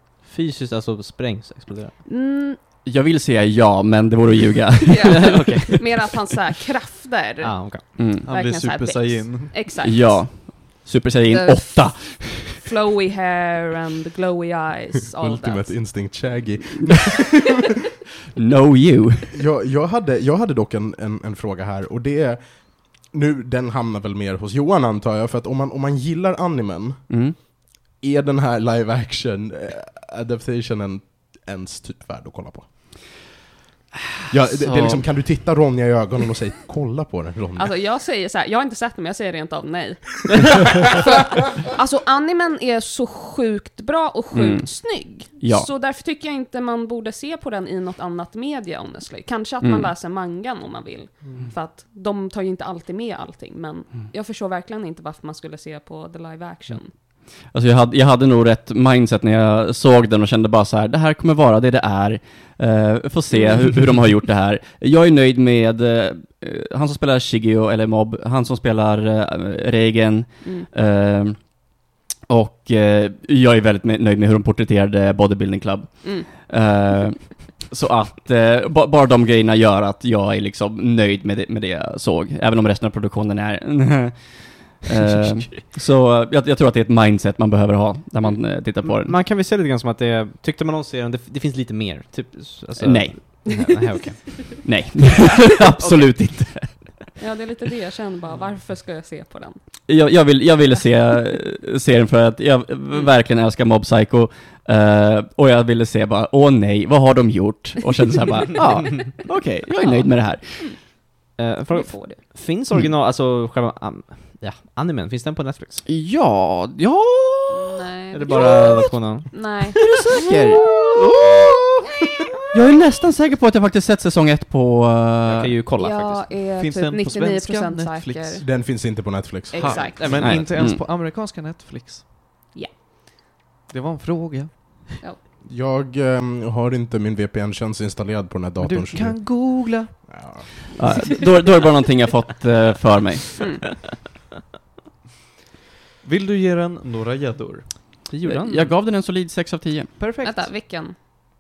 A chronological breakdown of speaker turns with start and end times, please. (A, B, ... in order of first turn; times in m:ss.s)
0:00.2-0:02.0 A
0:02.0-0:02.6 B
0:02.8-0:06.1 C
0:04.9-0:10.3 B
0:05.1-0:05.8 A
0:07.4-0:07.8 A
0:08.0-0:08.3 C
0:08.2-0:09.6 D
0:09.8-0:12.6 C
0:11.3-0:15.8 B
0:15.2-0:17.4 E
0:18.4-0:19.3 C
0:19.3-0:32.7 E
0:27.1-0:27.4 C
0:34.3-0:37.8 E
0:34.5-0:35.0 C
0:37.6-0:56.9 B
0:44.3-0:45.7 C
0:49.6-0:49.9 C
0:57.5-1:11.8 C
1:03.3-1:03.7 B
1:10.4-1:10.7 B
1:12.3-1:29.2 C
1:16.0-1:16.3 B
1:28.8-1:34.3 A
1:32.8-1:33.7 C
1:33.4-1:34.6 B
1:34.6-1:37.0 C
1:35.8-1:36.2 A
1:37.2-1:39.6 B
1:39.9-1:50.8 C
1:49.8-1:50.8 B
1:51.4-1:55.8 A
1:51.7-1:52.2 B
1:55.9-1:59.2 C
1:57.5-1:59.8 B
1:58.1-1:59.3 A
1:59.8-2:00.8 C
2:00.3-2:01.5 A
2:02.5-2:05.5 C
2:05.3-2:06.3 A
2:05.8-2:08.5 B
2:06.5-2:08.5 D
2:08.4-2:10.0 E
2:09.5-2:10.4 B
2:09.6-2:10.3 A
2:09.7-2:12.0 D
2:10.2-2:10.8 C
2:13.7-2:15.0 D
2:15.4-2:20.5 E
2:18.6-2:20.2 D
2:20.8-2:23.6 C
2:26.0-2:27.8 D
2:28.1-2:28.7 A
2:28.2-2:30.0 C
2:30.0-2:30.4 D
2:30.2-2:31.0 B